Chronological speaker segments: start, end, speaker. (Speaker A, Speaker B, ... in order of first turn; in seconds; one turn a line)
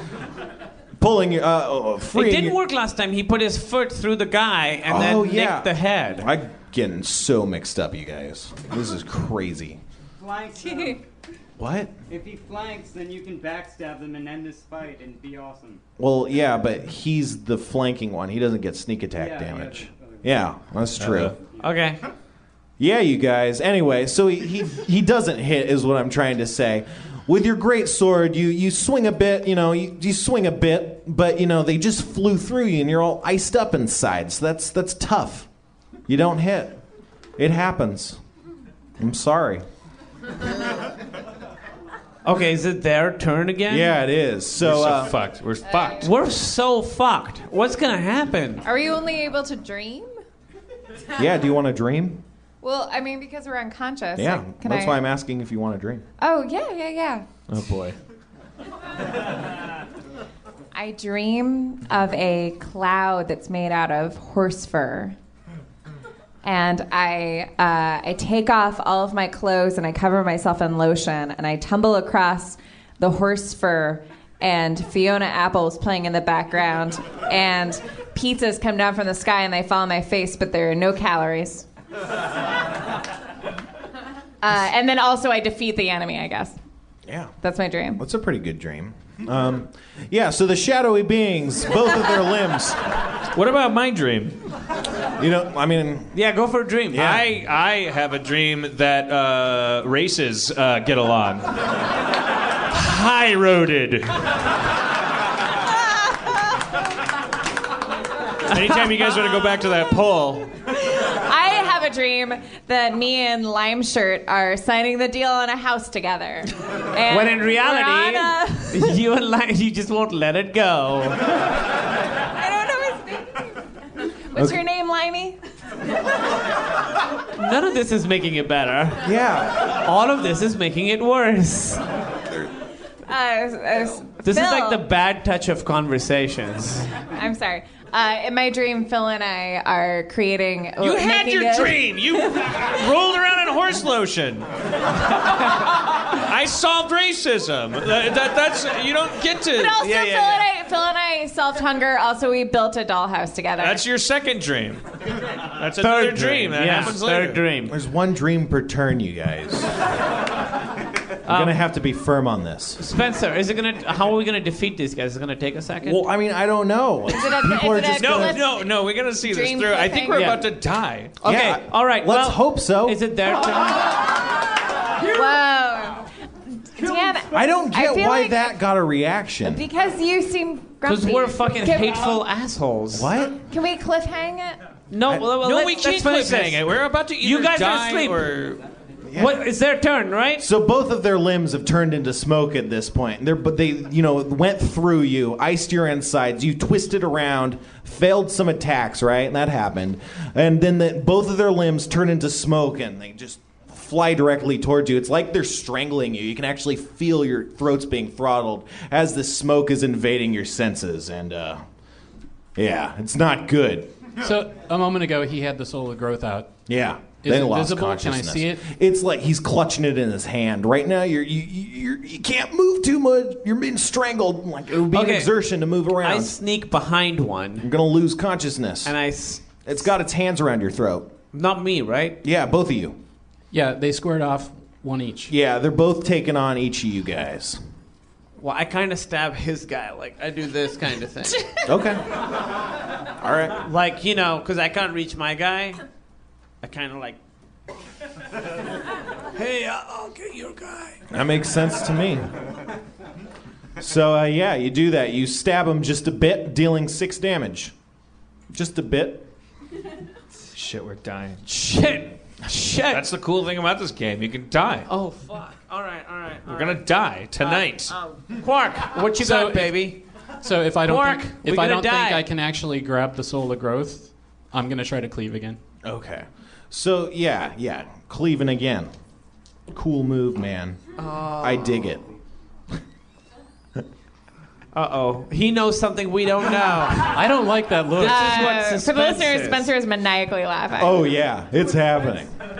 Speaker A: 1.0-2.6
Speaker B: 2.1-6.3
Speaker A: 4.9-9.8
Speaker C: 10.2-11.0
Speaker A: 11.6-11.9
Speaker C: 12.1-15.8
Speaker A: 16.0-21.4
Speaker C: 19.1-20.5
Speaker D: 21.0-21.3
Speaker C: 21.3-21.7
Speaker B: 21.6-22.0
Speaker A: 22.8-35.5
Speaker A: 36.1-36.8
Speaker A: 37.4-38.2
Speaker A: 39.0-39.6
Speaker B: 42.2-44.0
Speaker A: 43.7-45.1
Speaker D: 44.6-46.1
Speaker B: 46.0-48.6
Speaker E: 48.6-50.1
Speaker A: 51.1-52.2
Speaker E: 52.6-55.0
Speaker A: 54.2-56.0
Speaker E: 56.2-57.3
Speaker D: 57.5-58.0
Speaker E: 60.7-65.2
Speaker E: 66.4-81.7
Speaker E: 84.4-86.6
Speaker A: 87.0-87.3
Speaker E: 87.4-88.0
Speaker A: 88.0-92.8
Speaker D: 93.3-94.4
Speaker A: 95.2-96.1
Speaker B: 96.1-97.2
Speaker A: 96.9-97.2
Speaker D: 96.9-101.5
Speaker D: 102.7-104.3
Speaker D: 108.5-110.5
Speaker E: 110.7-118.9
Speaker B: 117.1-121.2
Speaker E: 122.3-123.6
Speaker E: 124.3-125.4
Speaker B: 127.3-129.1
Speaker A: 129.0-129.7
Speaker B: 129.7-131.8
Speaker E: 133.1-134.8
Speaker B: 134.2-136.9
Speaker E: 137.1-142.3
Speaker D: 140.8-144.5
Speaker D: 146.0-150.3
Speaker E: 149.5-153.8
Speaker D: 153.6-157.4
Speaker B: 155.8-157.8
Speaker A: 157.7-159.7
Speaker A: 161.2-162.8
Speaker B: 161.3-161.6
Speaker B: 162.8-166.0
Speaker A: 165.8-168.4
Speaker E: 167.1-170.4
Speaker D: 168.0-171.2
Speaker B: 170.1-170.4
Speaker B: 171.2-174.0
Speaker A: 171.2-173.0
Speaker E: 175.0-176.1
Speaker E: 176.6-178.6
Speaker A: 177.3-179.6
Speaker E: 179.4-182.2
Speaker B: 180.8-183.1
Speaker A: 182.9-183.4
Speaker E: 183.4-184.6
Speaker B: 184.9-186.6
Speaker D: 185.4-188.6
Speaker B: 187.2-188.2
Speaker A: 189.1-189.4
Speaker B: 189.2-190.5
Speaker A: 190.4-211.6
Speaker A: 212.6-213.9
Speaker F: 214.2-216.6
Speaker A: 216.7-226.3
Speaker F: 217.2-218.6
Speaker B: 224.9-225.3
Speaker B: 225.9-227.7
Speaker A: 227.6-228.9
Speaker B: 228.8-229.5
Speaker A: 229.6-231.1
Speaker B: 231.3-232.2
Speaker A: 232.2-233.0
Speaker F: 233.5-235.3
Speaker A: 235.3-237.6
Speaker B: 238.4-241.5
Speaker A: 241.7-242.1
Speaker A: 243.2-243.7
Speaker B: 243.6-245.8
Speaker B: 246.6-247.2
Speaker B: 249.3-251.0
Speaker A: 251.1-252.3
Speaker A: 253.8-257.7
Speaker A: 258.5-259.3
Speaker D: 260.5-261.4
Speaker B: 261.5-263.1
Speaker D: 262.9-264.9
Speaker B: 264.9-266.8
Speaker D: 266.5-267.9
Speaker B: 267.4-270.0
Speaker F: 269.1-269.9
Speaker F: 270.4-275.6
Speaker B: 270.8-272.2
Speaker A: 275.8-278.9
Speaker A: 279.7-280.8
Speaker B: 281.0-281.9
Speaker A: 281.4-282.1
Speaker B: 284.7-287.3
Speaker F: 287.1-288.5
Speaker B: 287.9-289.7
Speaker E: 288.0-291.2
Speaker A: 290.8-292.4